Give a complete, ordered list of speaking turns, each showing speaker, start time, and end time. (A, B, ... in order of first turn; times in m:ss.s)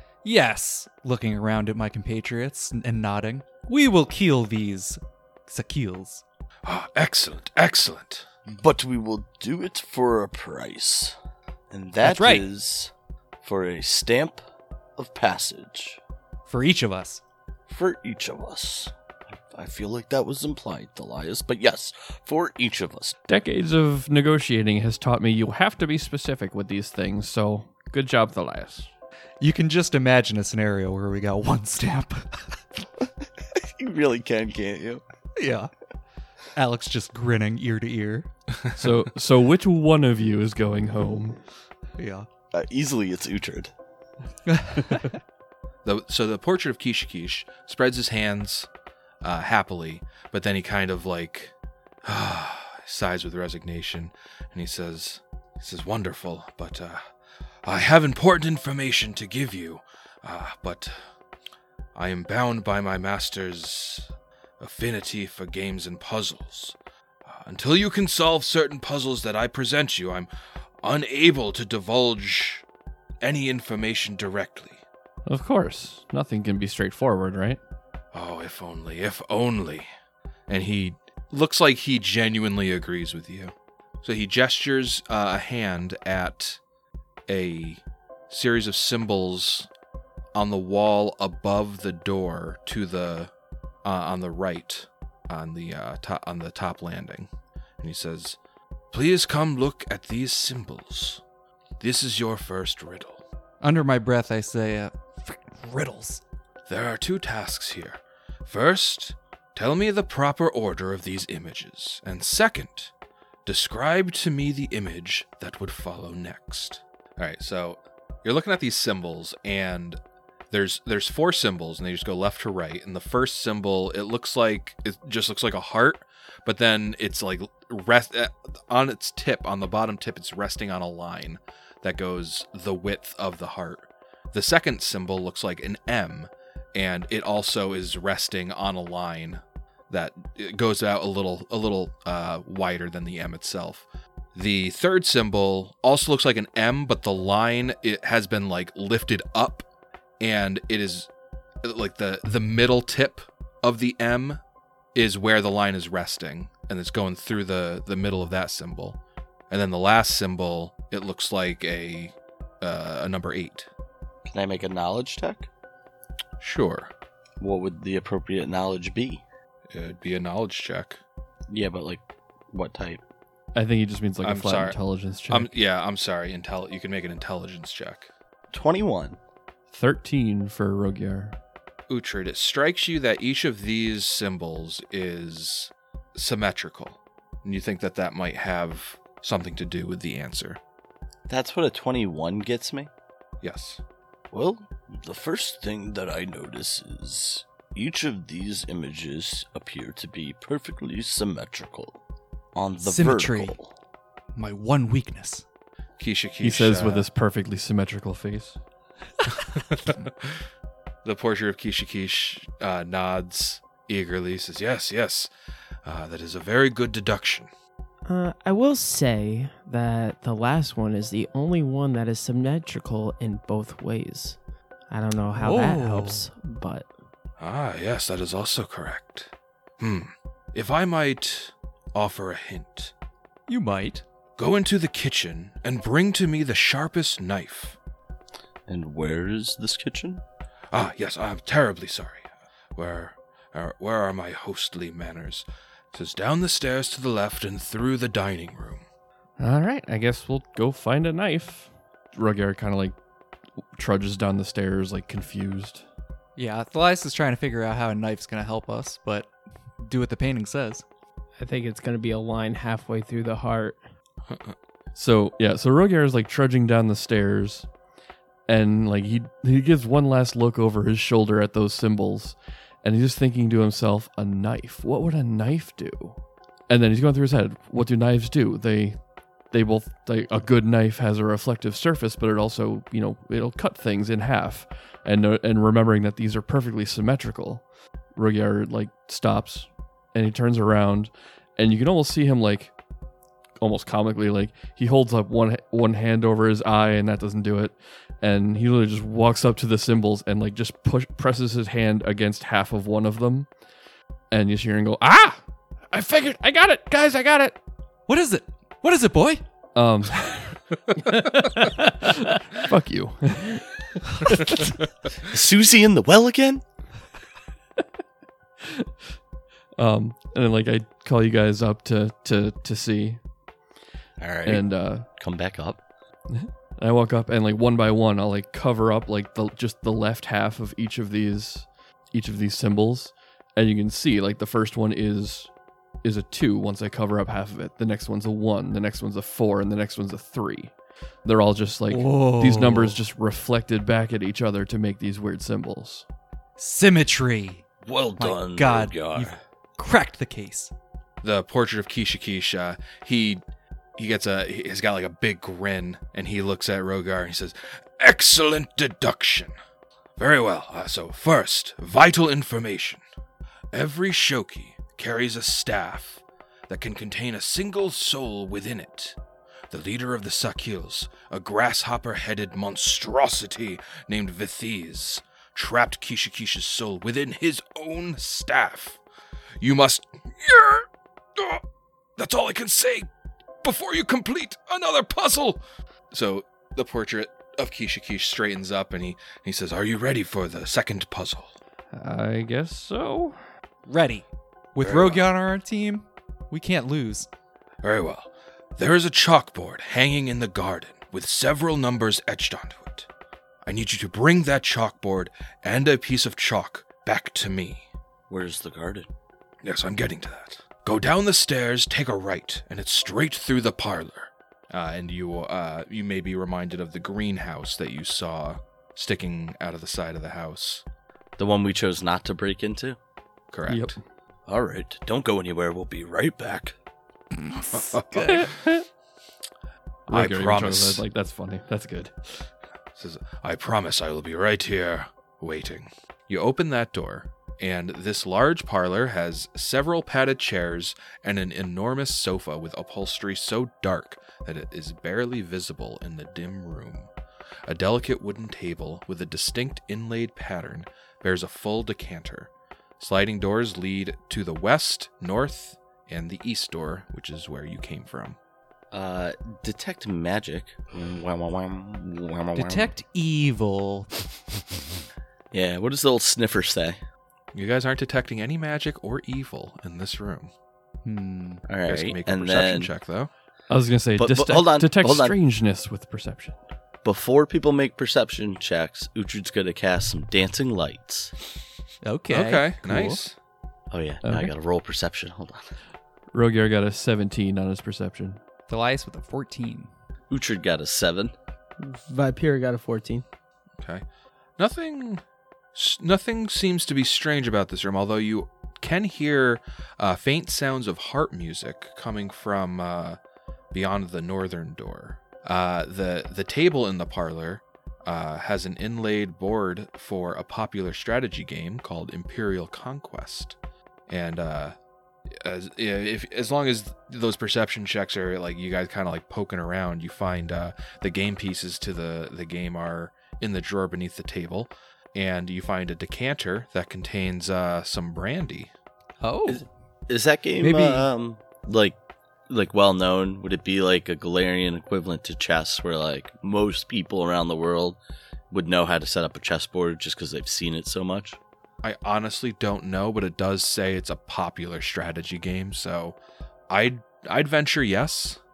0:00.2-0:06.2 A
0:06.6-0:08.3 B
0:08.6-0:11.2 C
0:11.7-0:12.9 C
0:12.0-0:12.4 A
0:13.4-0:14.4 C
0:15.0-0:16.0 C
0:16.5-0:17.2 A
0:17.7-0:23.2 C
0:23.3-0:28.9 D
0:29.4-0:32.6 A
0:33.6-0:35.0 C
0:35.4-0:35.7 A
0:36.5-0:38.3 A
0:38.8-0:41.5 D
0:42.0-0:42.3 A
0:42.5-0:43.7 C
0:44.5-0:45.1 A
0:45.8-0:48.7 B
0:49.2-0:51.5 B
0:52.0-0:57.1 B
0:57.6-1:01.1 B
1:02.0-1:10.3 B
1:10.8-1:12.6 B
1:13.2-1:14.8 B
1:15.3-1:17.6 D
1:18.1-1:19.9 B
1:20.5-1:26.6 B
1:27.3-1:29.7 B
1:30.4-1:33.3 B
1:33.8-1:38.4 B
1:38.9-1:41.2 B
1:41.8-1:43.2 B
1:43.6-1:46.2 A
1:46.7-1:52.9 B
1:53.4-2:00.0 B
2:00.5-2:29.7 B
2:30.2-2:31.1 B
2:31.6-2:34.4 B
2:35.0-2:39.0 B
2:39.5-2:43.7 B
2:44.3-2:45.5 C
2:46.4-2:46.9 B
2:47.4-2:49.2 C
2:49.7-2:51.0 B
2:51.5-2:53.0 C
2:53.6-2:55.5 D
2:54.2-2:58.1 B
2:58.5-2:59.2 C
2:59.7-3:01.4 D
3:01.9-3:10.6 B
3:11.3-3:12.9 C
3:13.4-3:13.8 B
3:14.3-3:22.0 C
3:22.6-3:23.7 C
3:22.8-3:23.6 A
3:24.4-3:25.5 A
3:26.0-3:27.1 B
3:26.4-3:28.6 D
3:29.5-3:30.4 B
3:31.0-3:35.3 B
3:35.8-3:37.5 B
3:38.1-3:46.9 E
3:45.3-3:46.3 A
3:47.4-3:52.9 B
3:53.5-3:54.0 A
3:54.4-3:57.8 B
3:58.7-4:00.2 C
4:00.7-4:08.9 B
4:09.4-4:13.0 D
4:13.8-4:15.8 D
4:16.4-4:20.8 A
4:21.4-4:23.8 E
4:24.3-4:24.6 B
4:25.0-4:27.7 D
4:28.5-4:52.8 D
4:53.6-5:03.6 D
5:04.3-5:07.6 D
5:08.1-5:09.4 A
5:09.8-5:10.6 D
5:11.1-5:11.5 E
5:11.8-5:14.6 D
5:15.3-5:16.6 C
5:19.8-5:23.2 D
5:24.2-5:25.8 C
5:24.4-5:25.1 D
5:26.3-5:46.0 D
5:41.9-5:43.0 A
5:46.6-5:47.6 A
5:47.8-5:49.4 C
5:48.2-5:50.7 A
5:51.2-5:53.4 B
5:54.0-5:59.5 B
6:00.2-6:03.0 B
6:03.7-6:09.2 B
6:09.7-6:19.0 B
6:19.6-6:21.6 B
6:22.2-6:23.1 B
6:23.6-6:31.6 B
6:31.9-6:33.4 D
6:33.9-6:37.3 A
6:34.8-6:35.2 B
6:37.8-6:43.1 B
6:43.6-6:47.9 B
6:48.3-6:49.1 C
6:49.6-7:00.8 B
7:01.4-7:03.0 C
7:03.5-7:04.0 B
7:03.7-7:04.0 D
7:04.5-7:06.8 C
7:07.4-7:08.5 A
7:07.7-7:08.7 B
7:08.2-7:08.8 D
7:10.1-7:11.0 B
7:10.1-7:12.5 D
7:13.0-7:27.1 B
7:27.7-7:38.4 B
7:38.9-7:42.9 C
7:42.6-7:44.2 A
7:45.5-7:47.0 C
7:47.5-7:50.5 B
7:51.0-7:51.6 A
7:51.7-7:52.9 C
7:51.9-7:53.3 B
7:53.7-7:56.6 D
7:54.2-7:55.4 C
7:57.0-8:01.3 C
8:02.0-8:03.2 A
8:02.3-8:03.4 B
8:03.9-8:05.7 C
8:04.2-8:04.5 D
8:06.3-8:08.4 D
8:08.7-8:09.9 A
8:10.3-8:11.3 C
8:11.8-8:13.2 E
8:13.8-8:14.0 B
8:14.6-8:23.2 B
8:23.7-8:33.6 B
8:34.1-8:34.8 B
8:35.3-8:48.7 B
8:49.2-8:49.7 A
8:49.5-8:52.0 C
8:50.6-8:51.1 A
8:52.5-8:58.0 C
8:58.5-9:01.4 C
9:01.8-9:06.2 B
9:06.7-9:08.4 B